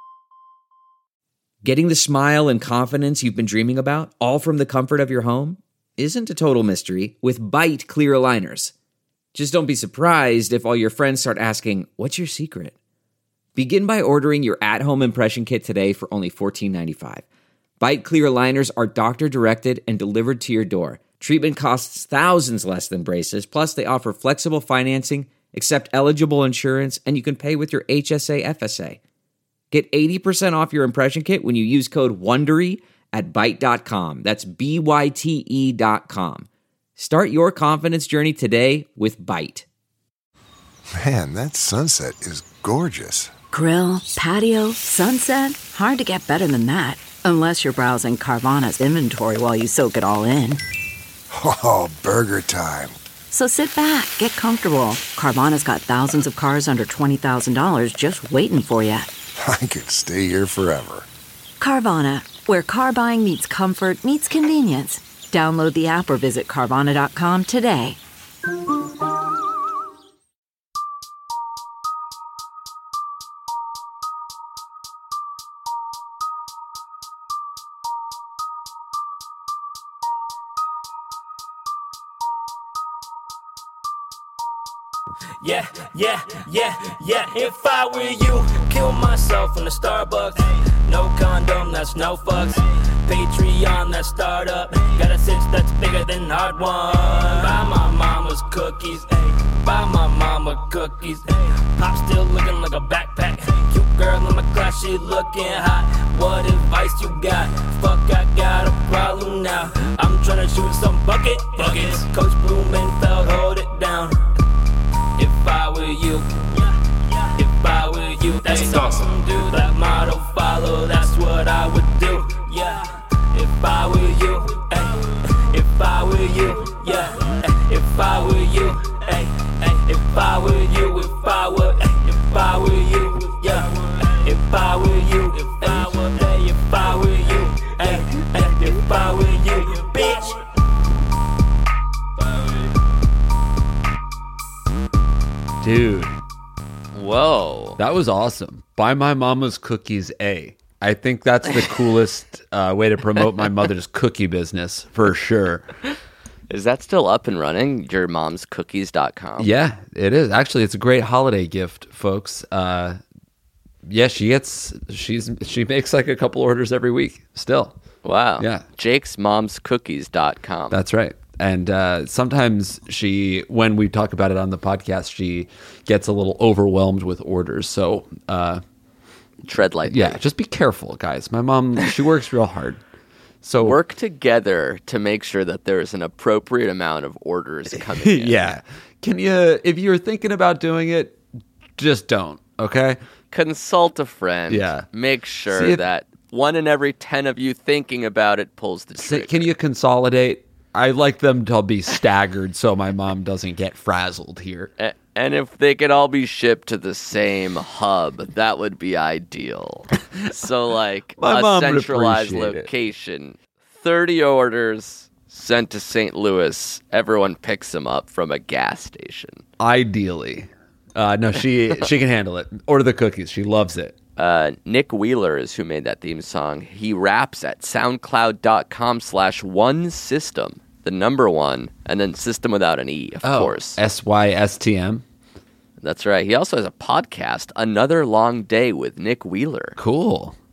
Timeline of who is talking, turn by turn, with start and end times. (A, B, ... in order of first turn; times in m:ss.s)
0:01.6-0:08.7 A
0:09.3-0:12.7 A
0:13.6-0:17.2 A
0:17.8-0:29.0 A
0:29.7-0:39.6 A
0:41.0-0:43.3 B
0:43.5-0:50.6 C
0:51.3-0:53.0 B
0:53.3-0:59.1 C
0:59.4-1:01.1 B
1:01.6-1:08.0 C
1:25.4-1:54.3 D
1:55.2-2:20.4 D
2:22.2-2:22.5 D
2:25.6-2:26.2 E
2:26.9-2:27.8 F
2:27.8-2:35.7 E
2:36.5-2:39.5 F
2:39.4-2:43.0 E
2:43.8-2:47.8 E
2:48.0-2:50.8 F
2:48.4-2:48.6 E
2:50.7-2:58.6 E
2:59.4-3:00.2 F
2:59.8-3:02.8 E
3:03.4-3:03.8 E
3:03.6-3:08.6 F
3:07.7-3:11.2 E
3:11.8-3:13.0 E
3:13.3-3:19.5 F
3:14.5-3:14.9 E
3:15.5-3:15.8 E
3:19.0-3:24.7 E
3:24.8-3:39.4 F
3:31.2-3:32.7 E
3:39.6-3:44.0 E
3:44.2-3:53.8 F
3:53.2-3:55.0 E
3:55.8-3:59.8 F
3:59.8-4:00.4 E